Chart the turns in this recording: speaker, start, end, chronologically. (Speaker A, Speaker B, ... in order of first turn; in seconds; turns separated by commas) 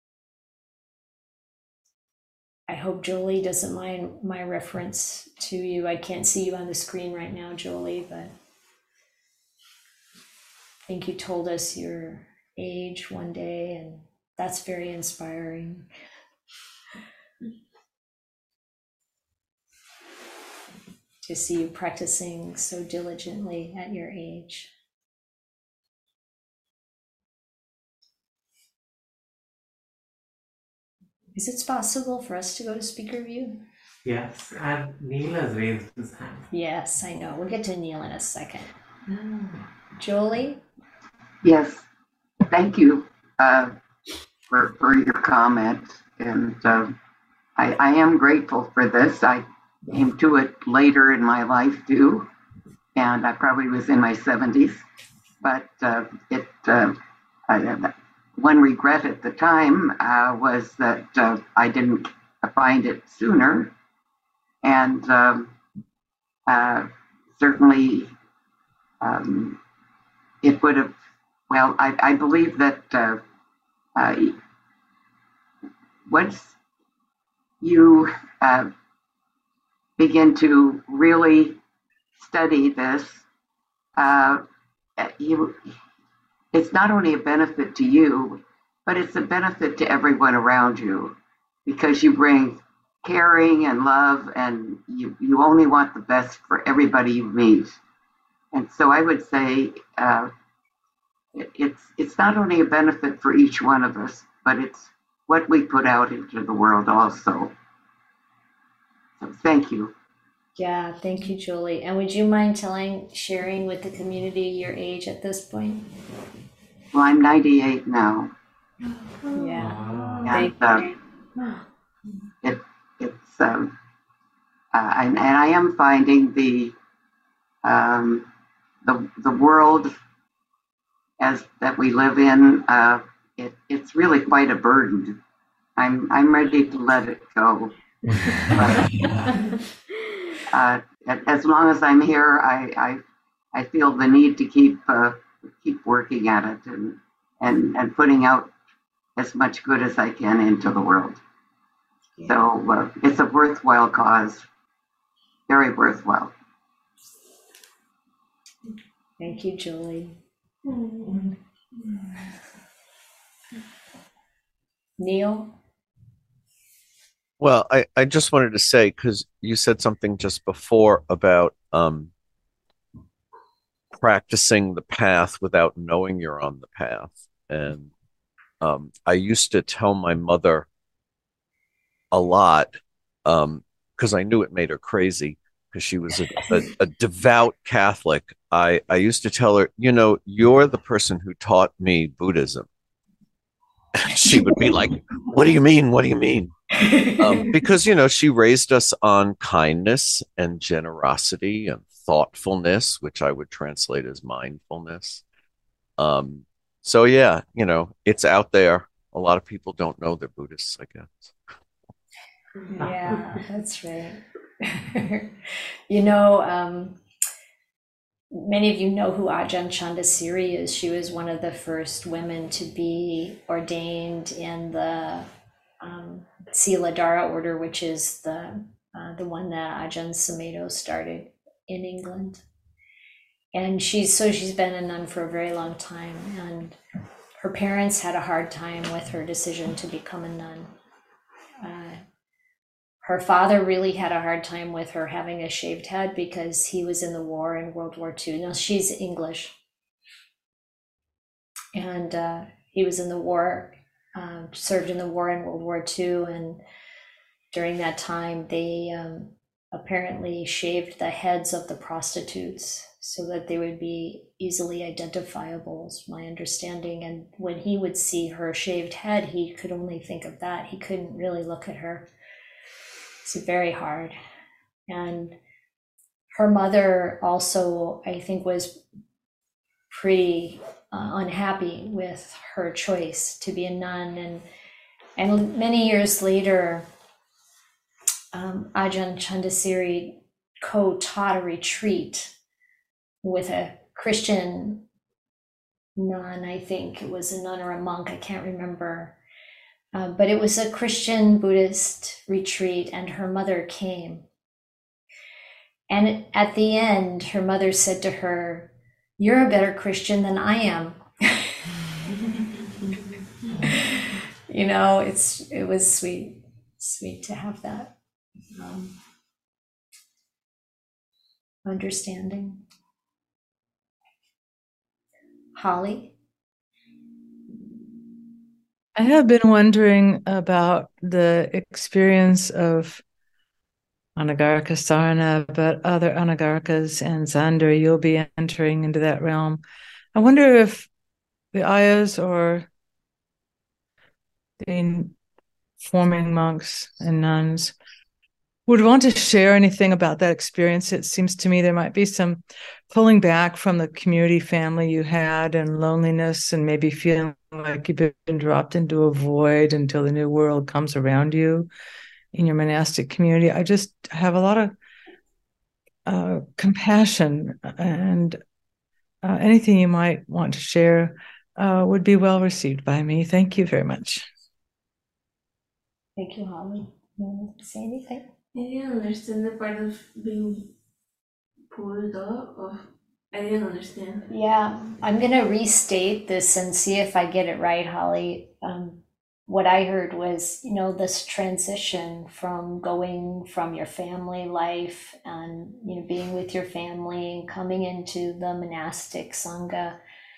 Speaker A: 2.7-8.3, Speaker A: 10.9-15.9, Speaker A: 21.2-24.7, Speaker A: 31.4-33.6, Speaker B: 34.0-36.5, Speaker A: 36.5-38.7, Speaker A: 40.0-40.6, Speaker C: 41.4-41.8, Speaker C: 42.5-43.7, Speaker C: 44.5-46.9, Speaker C: 47.6-52.3, Speaker C: 53.0-54.8, Speaker C: 55.4-57.0, Speaker C: 57.5-63.7, Speaker C: 64.6-65.5, Speaker C: 66.5-68.1, Speaker C: 69.0-69.6, Speaker C: 70.4-70.9, Speaker C: 71.5-73.2, Speaker C: 74.0-74.3, Speaker C: 76.1-76.5, Speaker C: 77.6-78.7, Speaker C: 80.0-81.6, Speaker C: 82.2-83.2, Speaker C: 84.0-84.4, Speaker C: 85.0-85.6, Speaker C: 86.5-91.1, Speaker C: 91.7-97.7, Speaker C: 98.5-100.3, Speaker C: 101.3-107.5, Speaker C: 109.2-109.9, Speaker A: 110.6-115.8, Speaker C: 116.9-118.3, Speaker A: 119.3-120.9, Speaker B: 119.5-120.4, Speaker C: 120.3-120.9, Speaker C: 122.4-123.7, Speaker C: 124.7-126.7, Speaker C: 127.6-128.2, Speaker C: 128.8-129.9, Speaker C: 131.2-135.2, Speaker C: 135.8-137.7, Speaker C: 138.5-138.9, Speaker C: 140.5-143.0, Speaker C: 143.5-148.5, Speaker C: 149.2-151.2, Speaker A: 152.2-152.4, Speaker C: 152.2-154.4, Speaker C: 155.5-156.3, Speaker A: 159.2-160.2, Speaker A: 165.0-165.5, Speaker D: 167.4-172.1, Speaker D: 173.9-177.9, Speaker D: 178.6-180.7, Speaker D: 182.1-192.7, Speaker D: 194.0-196.5, Speaker D: 197.2-205.2, Speaker D: 206.0-211.4, Speaker A: 212.7-217.0, Speaker B: 212.8-213.2, Speaker A: 218.3-225.3, Speaker A: 225.8-232.4, Speaker A: 233.5-236.8, Speaker A: 237.4-240.7, Speaker A: 241.6-242.0, Speaker A: 243.0-249.5, Speaker A: 251.8-256.6, Speaker A: 257.5-272.1, Speaker A: 273.2-274.2, Speaker A: 274.9-275.4, Speaker A: 276.3-278.8, Speaker A: 279.9-284.4, Speaker A: 285.2-286.9, Speaker A: 288.3-292.3, Speaker A: 293.2-294.8, Speaker A: 296.0-299.1, Speaker A: 299.9-304.2, Speaker A: 305.9-311.4, Speaker A: 313.6-317.9, Speaker A: 318.6-318.9, Speaker A: 321.6-322.6, Speaker A: 325.6-326.1, Speaker E: 328.9-333.0, Speaker E: 334.2-339.6, Speaker E: 340.1-340.9, Speaker E: 341.5-342.7, Speaker E: 344.6-345.1, Speaker E: 345.8-347.7, Speaker E: 348.7-361.7, Speaker E: 362.3-364.8, Speaker E: 366.1-368.4, Speaker E: 369.2-374.3, Speaker A: 376.2-378.3, Speaker F: 378.6-380.7, Speaker F: 381.7-384.2, Speaker A: 384.3-400.0